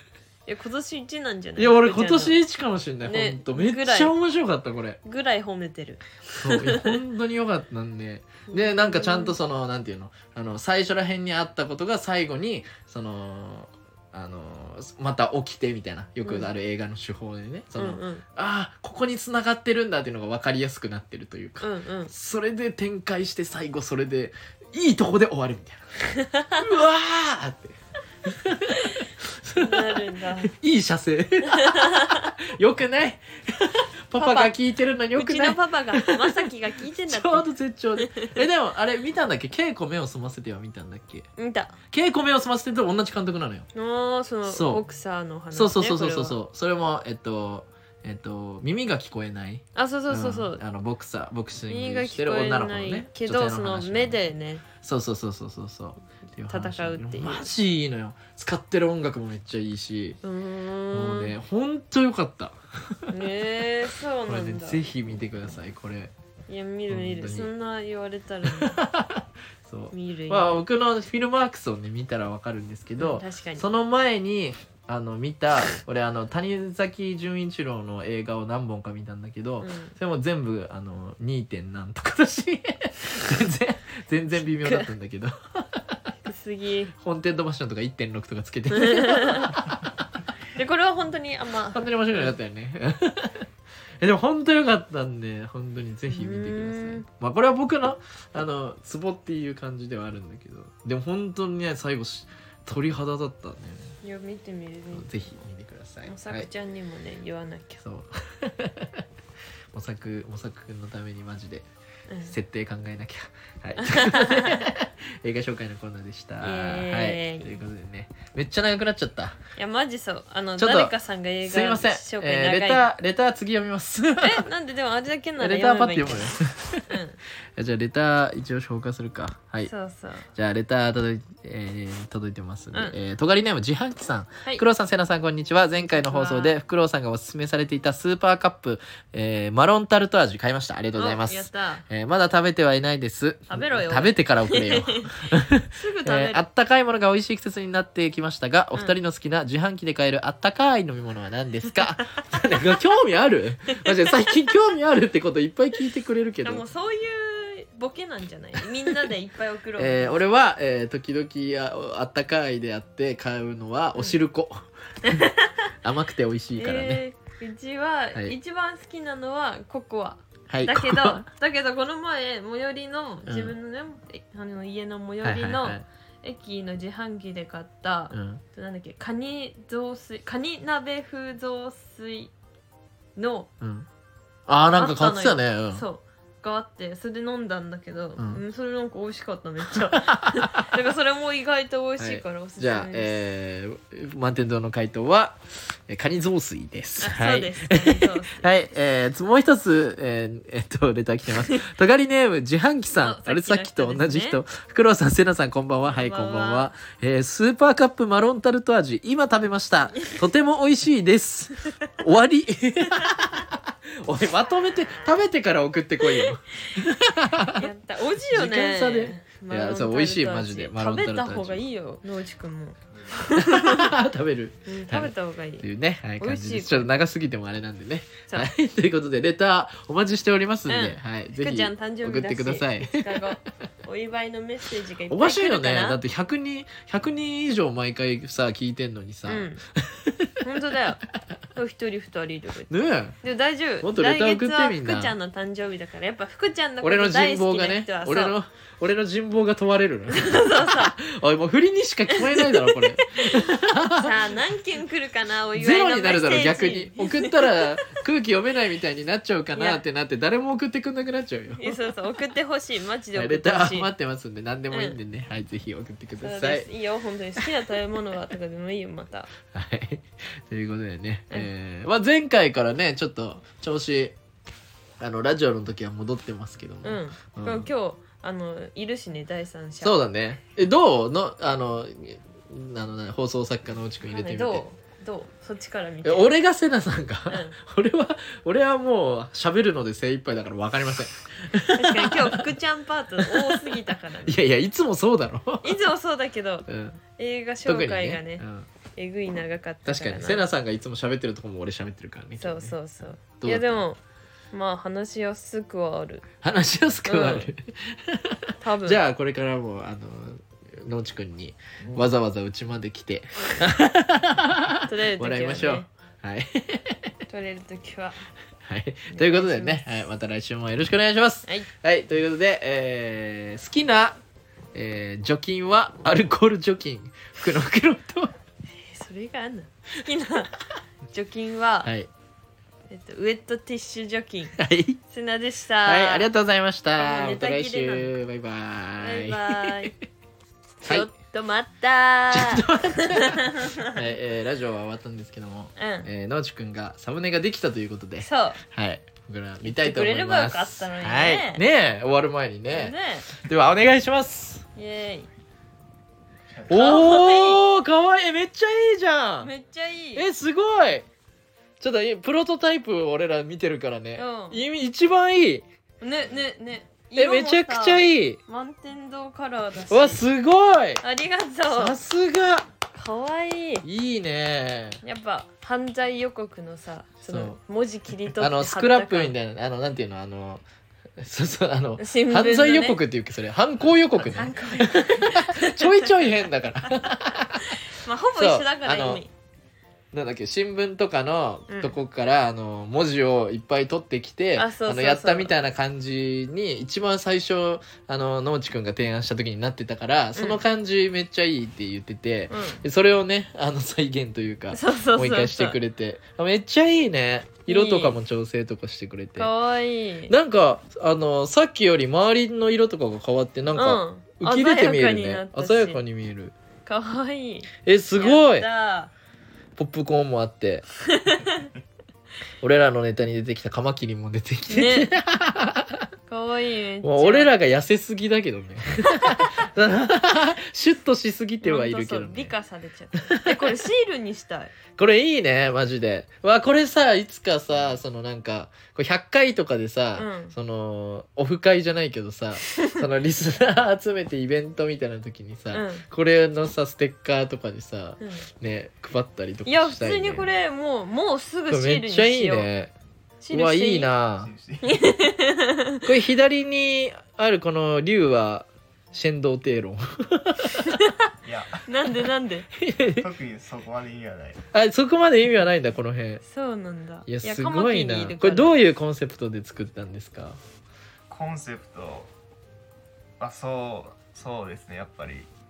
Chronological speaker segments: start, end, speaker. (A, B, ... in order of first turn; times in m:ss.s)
0:00.5-0:02.4 A
0:01.6-0:05.0 B
0:03.0-0:04.1 A
0:05.0-0:07.0 A
0:06.4-0:26.0 B
0:08.5-0:09.4 A
0:16.2-0:16.5 A
0:17.8-0:18.2 A
0:21.6-0:22.1 A
0:26.2-0:26.6 A
0:26.6-0:41.3 B
0:28.7-0:29.0 A
0:29.6-0:30.5 A
0:31.4-0:32.3 A
0:34.2-0:34.6 A
0:35.2-0:38.4 A
0:41.4-0:41.7 A
0:41.9-0:43.7 B
0:43.8-0:46.4 A
0:44.5-0:44.8 B
0:45.5-0:54.2 B
0:49.8-0:50.6 A
0:51.7-0:54.6 A
0:54.8-1:00.2 B
0:56.5-0:57.5 A
1:00.2-1:01.4 A
1:00.9-1:03.1 B
1:03.1-1:04.8 A
1:04.3-1:06.1 B
1:06.5-1:08.8 A
1:06.9-1:07.5 B
1:08.4-1:26.0 B
1:09.9-1:10.6 A
1:13.0-1:13.7 A
1:19.6-1:20.0 A
1:24.4-1:24.9 A
1:26.2-1:26.9 A
1:27.0-1:30.0 B
1:28.7-1:29.6 A
1:30.6-1:32.4 A
1:31.7-1:33.5 B
1:34.0-1:43.9 B
1:36.1-1:37.1 A
1:44.0-1:45.3 A
1:44.9-1:46.5 B
1:46.0-1:47.8 A
1:47.8-1:49.0 B
1:49.7-1:51.7 B
1:52.1-1:52.4 A
1:52.3-1:59.4 B
1:53.8-1:54.7 A
1:56.4-1:57.5 A
1:59.6-2:02.9 A
2:00.6-2:04.5 B
2:04.2-2:07.2 A
2:05.4-2:06.9 B
2:07.6-2:09.7 B
2:09.7-2:10.3 A
2:10.4-2:36.7 B
2:15.9-2:16.6 A
2:21.0-2:21.9 A
2:23.5-2:26.4 A
2:36.4-2:40.2 A
2:39.8-2:45.3 B
2:45.0-2:45.7 A
2:45.8-2:47.0 B
2:46.6-3:02.3 A
2:50.5-2:51.3 B
2:53.3-2:53.6 B
2:55.2-2:55.8 B
2:58.1-2:58.4 B
3:03.2-3:03.5 A
3:03.6-3:03.9 B
3:04.5-3:05.8 B
3:04.8-3:13.2 A
3:09.7-3:10.7 B
3:12.0-3:37.7 B
3:17.0-3:18.6 A
3:23.0-3:24.4 A
3:25.8-3:26.7 A
3:36.1-3:36.8 A
3:37.5-3:43.9 A
3:38.3-3:41.6 B
3:43.3-3:53.4 B
3:44.7-3:45.7 A
3:46.2-3:46.8 A
3:50.7-3:56.0 A
3:55.1-4:00.3 B
3:59.3-3:59.6 A
4:00.4-4:01.0 A
4:01.6-4:08.4 A
4:02.7-4:03.2 B
4:03.8-4:05.2 B
4:06.8-4:14.2 B
4:10.1-4:11.0 A
4:12.1-4:17.9 A
4:15.5-4:21.8 B
4:21.6-4:23.9 A
4:23.2-4:26.7 B
4:24.7-4:25.0 A
4:26.2-4:29.3 A
4:29.5-4:34.2 B
4:35.0-4:37.7 B
4:36.8-4:40.0 A
4:39.8-4:44.6 B
4:44.1-4:46.3 A
4:46.0-4:52.6 B
4:47.3-4:47.6 A
4:51.7-4:54.4 A
4:53.2-4:55.8 B
4:55.6-4:58.4 A
4:56.7-4:57.0 B
4:57.7-4:58.7 B
4:59.0-5:00.4 A
4:59.9-5:02.8 B
5:02.4-5:04.0 A
5:03.4-5:03.8 B
5:04.5-5:06.3 A
5:06.4-5:17.1 B
5:07.1-5:07.5 A
5:08.6-5:09.0 A
5:14.9-5:15.9 A
5:17.3-5:18.2 A
5:18.6-5:24.2 B
5:19.1-5:20.0 A
5:24.7-5:28.3 B
5:28.7-5:30.5 A
5:31.1-5:31.9 A
5:31.8-5:32.1 B
5:32.9-5:34.6 A
5:34.6-5:35.0 B
5:35.1-5:36.3 A
5:35.8-5:39.9 B
5:37.0-5:38.2 A
5:39.0-5:40.0 A
5:40.8-5:41.1 B
5:40.8-5:44.0 A
5:42.3-5:54.6 B
5:45.8-5:46.1 A
5:48.2-5:48.6 A
5:49.6-5:51.6 A
5:52.7-5:53.3 A
5:54.8-5:55.3 A
5:56.5-5:56.9 C
5:56.7-5:59.5 B
5:56.7-5:57.6 A
5:59.4-6:00.3 A
6:00.2-6:01.1 B
6:01.8-6:05.6 B
6:04.2-6:04.6 A
6:06.0-6:10.2 A
6:07.2-6:08.4 B
6:09.9-6:11.0 B
6:11.0-6:12.0 A
6:11.7-6:12.7 B
6:12.9-6:13.9 A
6:13.8-6:15.0 B
6:15.0-6:19.3 A
6:17.3-6:17.6 B
6:18.3-6:20.6 B
6:21.2-6:27.8 B
6:22.0-6:23.0 A
6:24.2-6:26.3 A
6:26.9-6:29.3 A
6:28.4-6:29.2 B
6:30.1-6:49.5 B
6:31.7-6:32.0 A
6:34.6-6:35.5 A
6:40.4-6:40.6 A
6:42.5-6:42.8 A
6:44.7-6:45.8 A
6:47.7-6:48.2 A
6:49.4-6:50.3 A
6:50.3-6:56.5 B
6:53.7-6:56.0 A
6:56.9-6:59.1 A
6:57.8-6:58.7 B
6:59.8-7:00.9 B
7:01.0-7:01.7 A
7:02.6-7:06.1 B
7:04.7-7:05.2 A
7:06.3-7:07.5 A
7:07.0-7:12.5 B
7:09.1-7:09.5 A
7:11.6-7:14.7 A
7:13.3-7:13.8 B
7:15.0-7:30.5 B
7:20.2-7:20.5 A
7:25.7-7:26.1 A
7:28.2-7:28.5 A
7:29.7-7:32.7 A
7:31.7-7:32.9 B
7:33.4-7:34.1 A
7:33.5-7:34.5 B
7:34.4-7:35.0 C
7:34.8-7:36.0 A
7:36.0-7:41.0 B
7:40.7-7:41.2 A
7:41.4-7:41.9 C
7:41.8-7:42.7 A
7:42.8-7:43.3 B
7:43.1-7:44.6 C
7:44.7-7:46.4 B
7:46.4-7:48.7 A
7:47.2-7:50.6 B
7:51.3-7:52.3 C
7:53.4-7:55.5 C